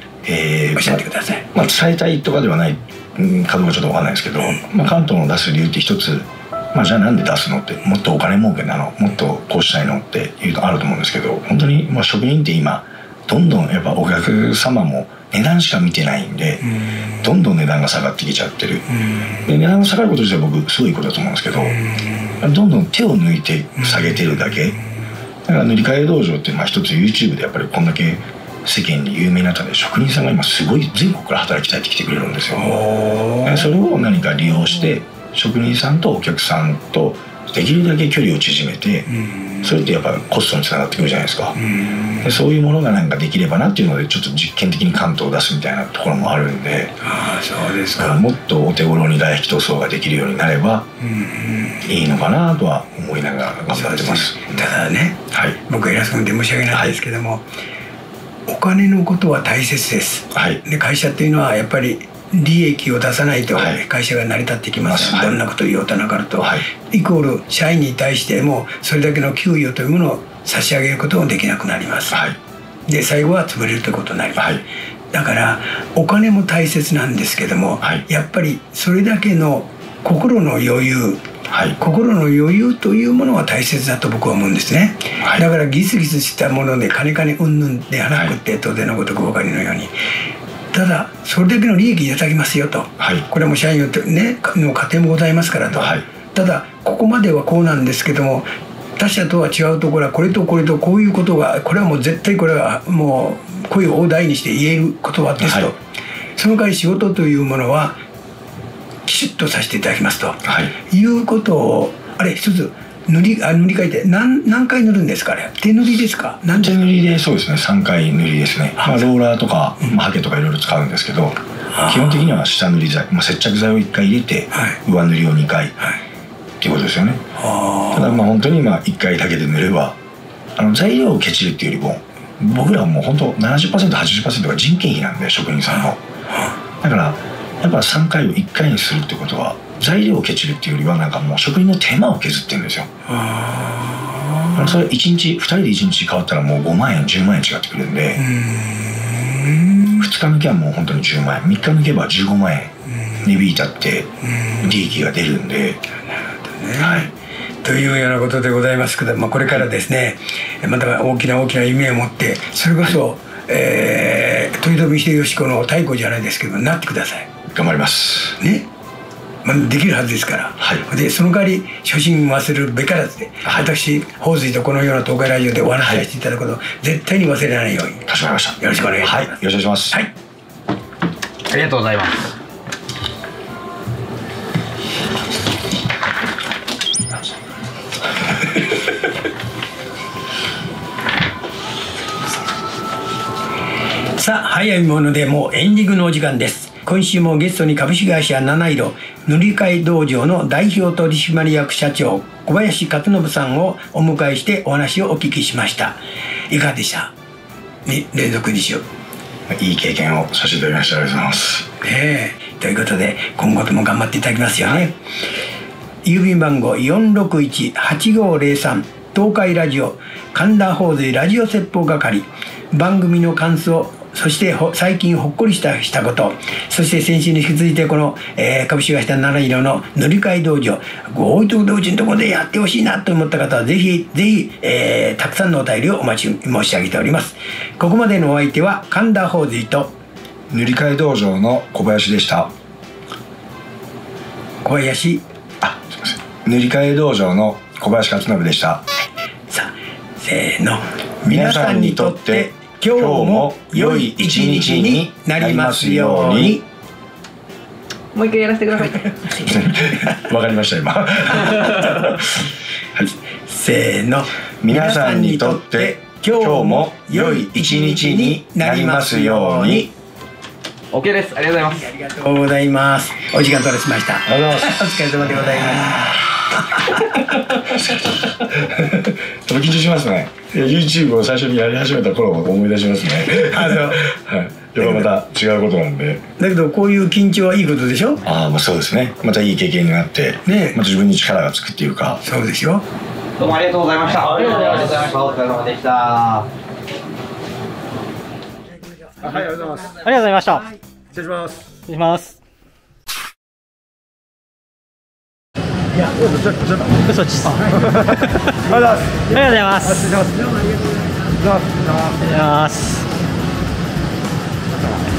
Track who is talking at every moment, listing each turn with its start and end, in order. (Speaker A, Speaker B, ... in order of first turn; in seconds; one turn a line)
Speaker A: 0.2-18.9
Speaker B: 0.8-1.5
Speaker B: 19.0-19.3
Speaker A: 19.4-21.8
Speaker A: 22.4-24.8
Speaker B: 23.8-24.5
Speaker A: 25.5-32.8
Speaker B: 32.5-33.7
Speaker A: 33.4-39.1
Speaker A: 39.6-41.6
Speaker B: 41.7-42.2
Speaker A: 42.2-47.0
Speaker B: 47.0-48.2
Speaker A: 48.0-50.9
Speaker B: 51.0-51.9
Speaker A: 51.9-54.6
Speaker B: 53.7-57.5
Speaker A: 55.3-55.6
Speaker A: 56.7-57.0
Speaker B: 58.5-72.2
Speaker A: 60.3-60.6
Speaker A: 63.5-63.8
Speaker A: 64.8-65.4
Speaker A: 66.4-66.6
Speaker A: 72.1-72.4
Speaker B: 72.9-74.6
Speaker A: 74.4-74.6
Speaker B: 75.1-81.2
Speaker A: 81.5-81.8
Speaker B: 81.8-89.9
Speaker B: 90.7-105.8
Speaker A: 93.0-93.2
Speaker A: 95.7-96.0
Speaker A: 105.4-105.7
Speaker B: 106.4-108.0
Speaker B: 109.1-116.8
Speaker A: 110.5-110.7
Speaker A: 116.5-125.8
Speaker B: 118.8-119.1
Speaker B: 121.7-122.2
Speaker B: 124.5-124.8
Speaker A: 126.6-127.2
Speaker B: 127.4-128.2
Speaker A: 127.9-130.0
Speaker A: 130.6-136.0
Speaker A: 136.8-142.9
Speaker B: 143.1-144.8
Speaker A: 144.6-148.2
Speaker B: 148.2-150.1
Speaker A: 150.0-155.9
Speaker B: 154.3-154.7
Speaker B: 156.1-157.1
Speaker A: 156.8-157.1
Speaker B: 157.6-167.3
Speaker A: 167.5-168.4
Speaker B: 168.4-168.7
Speaker B: 169.4-178.1
Speaker A: 170.6-170.8
Speaker A: 173.4-173.7
Speaker A: 175.8-176.1
Speaker A: 178.1-180.0
Speaker B: 178.6-180.1
Speaker C: 181.5-182.3
Speaker B: 194.2-207.1
Speaker B: 207.9-208.8
Speaker A: 209.5-211.7
Speaker B: 211.8-215.0
Speaker B: 216.0-239.9
Speaker A: 240.5-242.5
Speaker B: 244.6-245.2
Speaker A: 245.6-248.8
Speaker B: 249.5-256.6
Speaker A: 251.2-256.6
Speaker C: 258.1-259.5
Speaker A: 259.4-263.1
Speaker B: 263.4-269.9
Speaker A: 264.6-269.9
Speaker C: 270.9-271.9
Speaker B: 271.8-276.1
Speaker A: 274.3-274.9
Speaker A: 277.0-286.2
Speaker B: 283.3-284.0
Speaker B: 284.8-285.1
Speaker B: 286.4-288.2
Speaker A: 288.2-292.2
Speaker B: 290.4-290.8
Speaker B: 292.1-292.9
Speaker C: 293.4-296.5
Speaker D: 294.4-295.1
Speaker A: 299.2-300.0
Speaker D: 299.9-300.7
Speaker A: 301.1-301.7
Speaker D: 301.8-302.4
Speaker A: 306.1-310.3
Speaker D: 307.0-310.2
Speaker B: 310.5-311.2
Speaker A: 311.4-312.3
Speaker D: 312.2-313.1
Speaker A: 314.8-315.0